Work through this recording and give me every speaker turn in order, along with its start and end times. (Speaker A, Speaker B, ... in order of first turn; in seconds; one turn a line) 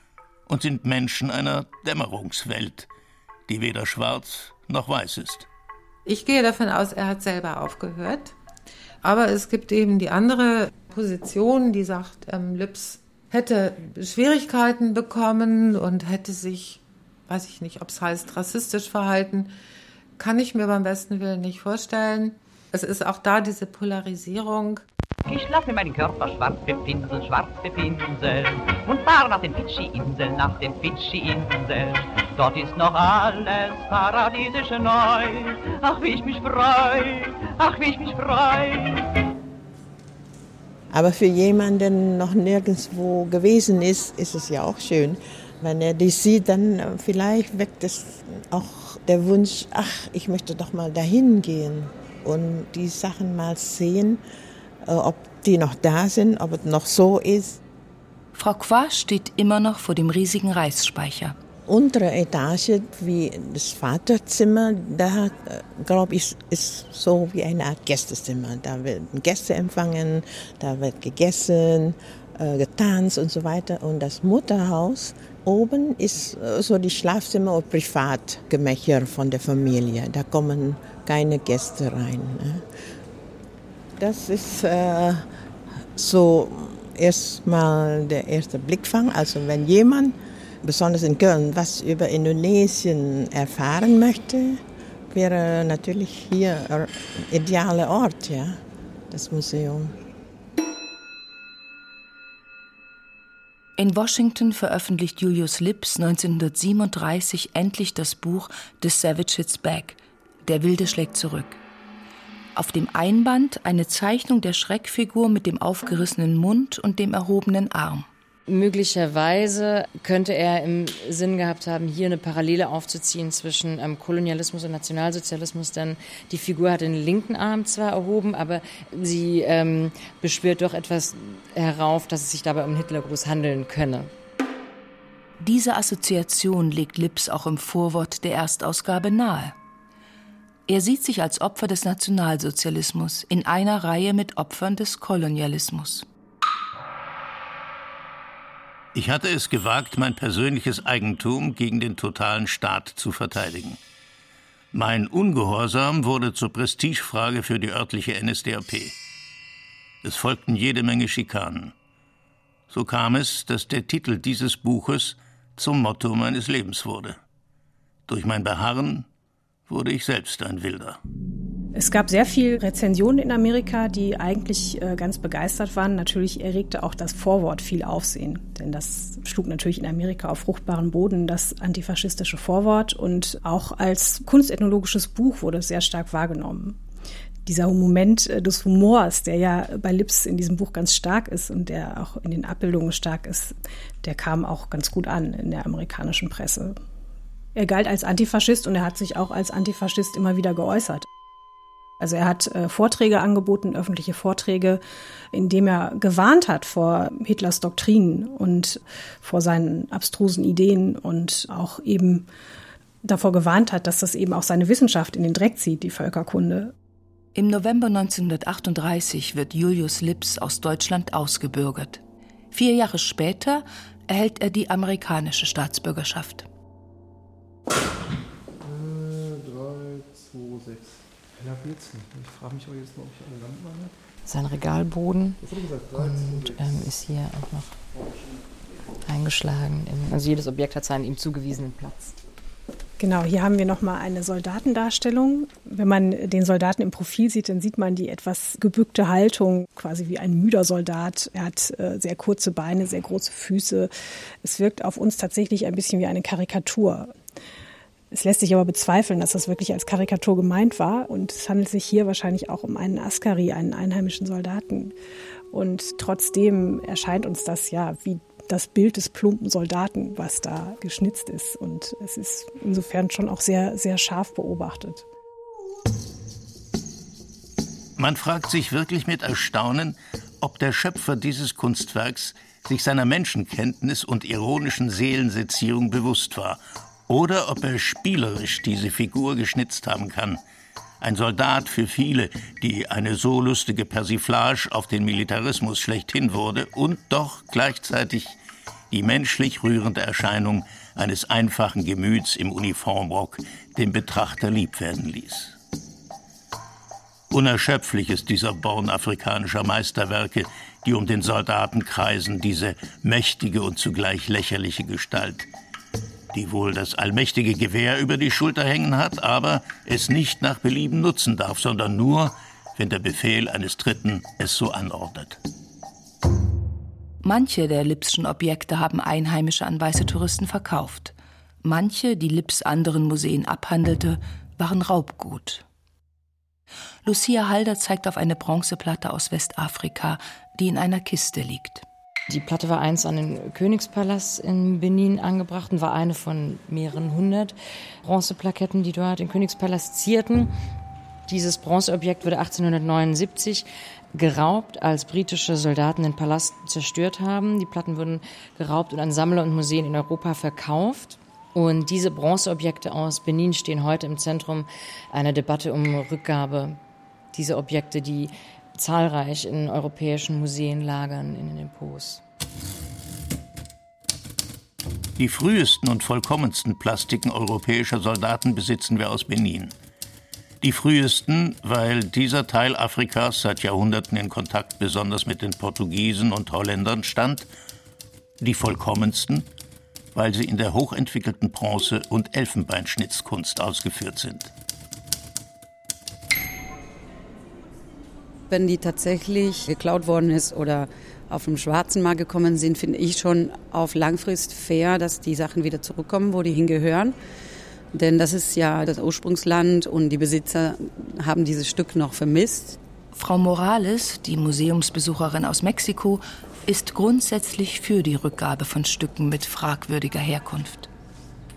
Speaker A: 0.5-2.9
Speaker A: 3.5-5.5
Speaker B: 6.0-8.3
Speaker B: 9.0-19.5
Speaker B: 20.2-24.8
Speaker C: 25.3-39.0
Speaker D: 40.9-54.2
Speaker D: 54.8-57.6
Speaker E: 58.3-61.4
Speaker D: 61.6-82.6
Speaker D: 84.0-85.2
Speaker D: 85.9-100.0
Speaker E: 103.8-111.6
Speaker E: 112.5-118.1
Speaker F: 118.5-134.1
Speaker E: 135.4-139.5
Speaker E: 140.7-146.1
Speaker A: 148.9-153.8
Speaker A: 154.7-158.9
Speaker A: 160.0-161.7
Speaker A: 162.7-167.2
Speaker A: 168.1-169.1
Speaker A: 169.7-171.0
Speaker G: 171.7-186.8
Speaker G: 187.4-196.8
Speaker G: 197.5-201.1
Speaker G: 202.0-204.8
Speaker G: 205.3-212.3
Speaker G: 213.0-216.7
Speaker E: 217.3-226.4
Speaker H: 228.6-233.9
Speaker F: 234.2-237.8
Speaker H: 235.4-236.7
Speaker H: 237.9-238.3
Speaker F: 239.1-242.2
Speaker G: 243.0-253.9
Speaker G: 254.4-257.1
Speaker G: 258.1-264.9
Speaker G: 265.5-275.1
Speaker A: 278.0-290.4
Speaker A: 291.0-298.4
Speaker A: 298.9-305.6
Speaker A: 307.3-315.5
Speaker A: 316.3-325.4
Speaker E: 327.2-335.6
Speaker E: 337.0-341.8
Speaker F: 342.3-350.5
Speaker F: 351.3-366.8
Speaker F: 367.3-372.2
Speaker A: 375.2-379.7
Speaker A: 380.6-387.5
Speaker A: 388.4-389.5
Speaker A: 390.1-394.5
Speaker I: 398.5-407.1
Speaker I: 407.9-412.8
Speaker E: 413.1-420.9